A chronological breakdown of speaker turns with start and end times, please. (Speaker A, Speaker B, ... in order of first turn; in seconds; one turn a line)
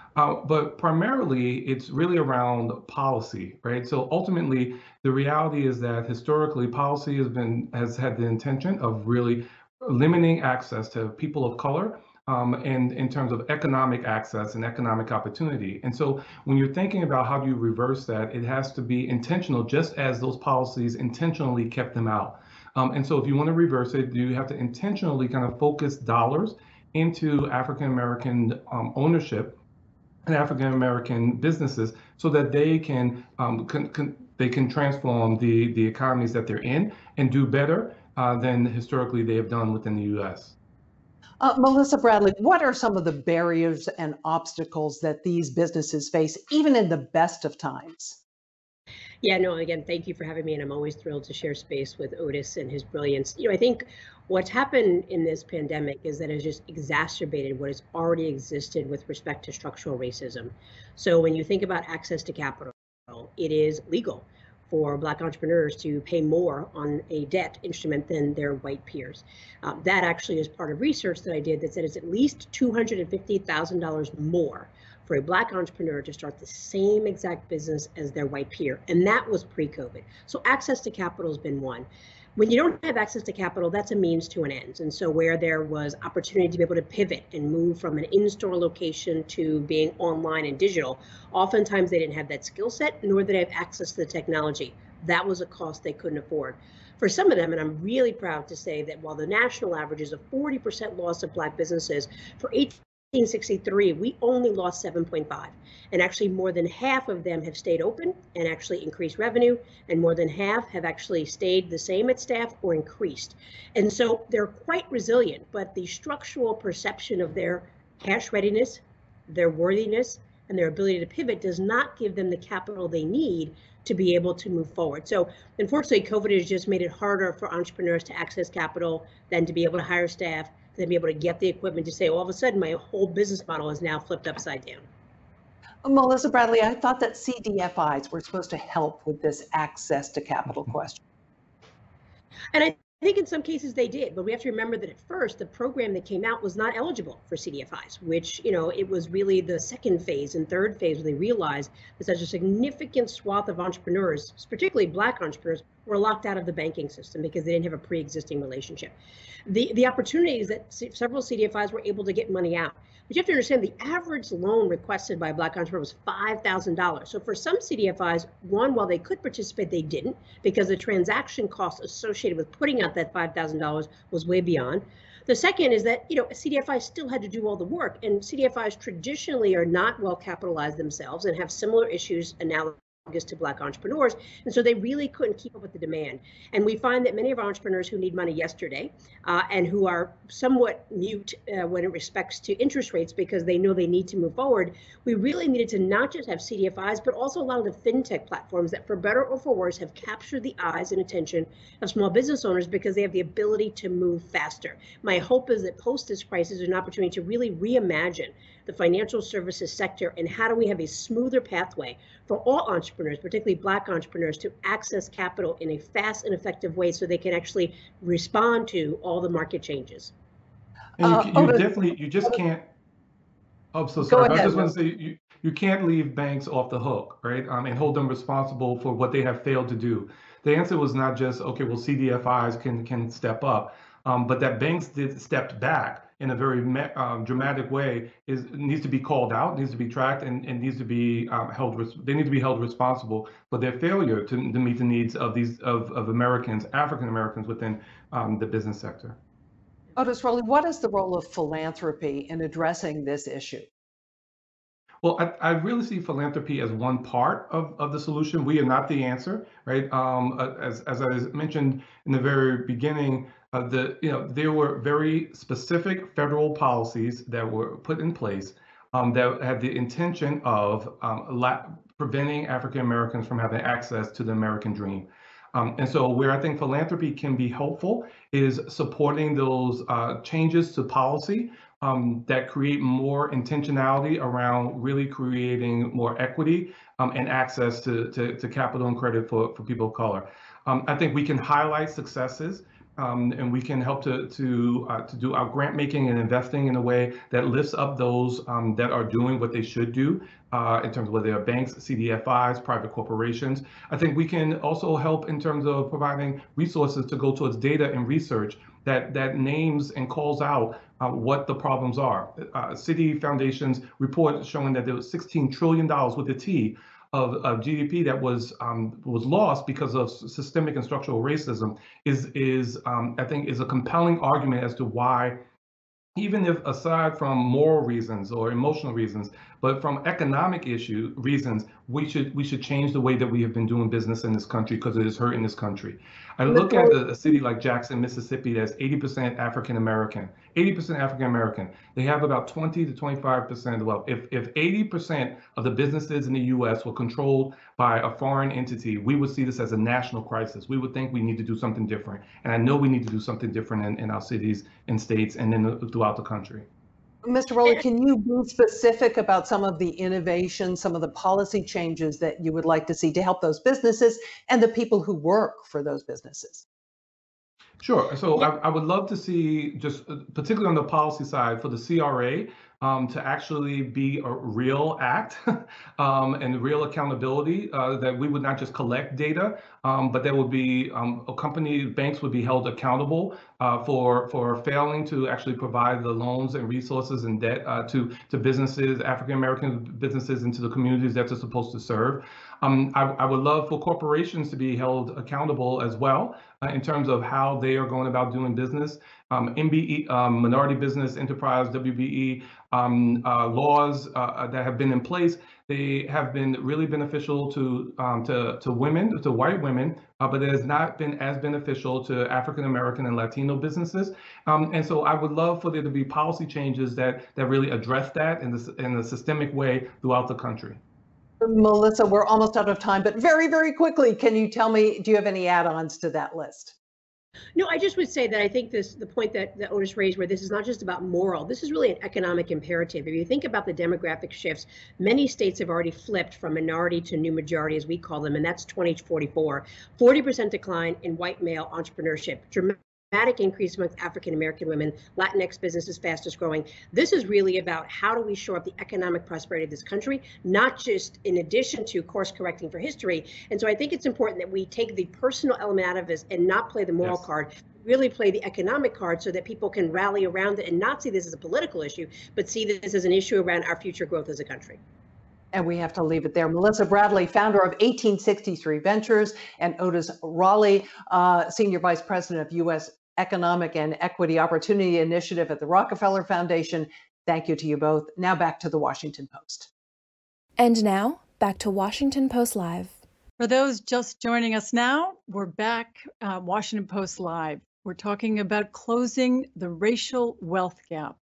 Speaker A: 0.2-29.6
Speaker A: 30.3-40.5
Speaker B: 41.4-48.2
Speaker C: 49.2-134.9
Speaker B: 135.8-141.0
Speaker C: 142.5-158.9
Speaker C: 159.5-220.1
Speaker A: 221.0-222.7
Speaker B: 221.0-222.4
Speaker A: 223.7-249.2
Speaker B: 224.0-224.8
Speaker B: 250.0-253.7
Speaker A: 255.0-325.4
Speaker A: 326.2-356.7
Speaker C: 336.5-336.9
Speaker B: 357.2-366.7
Speaker A: 367.8-420.8
Speaker B: 421.4-426.8
Speaker C: 427.6-464.8
Speaker B: 465.5-479.7
Speaker D: 480.6-483.0
Speaker E: 483.4-491.2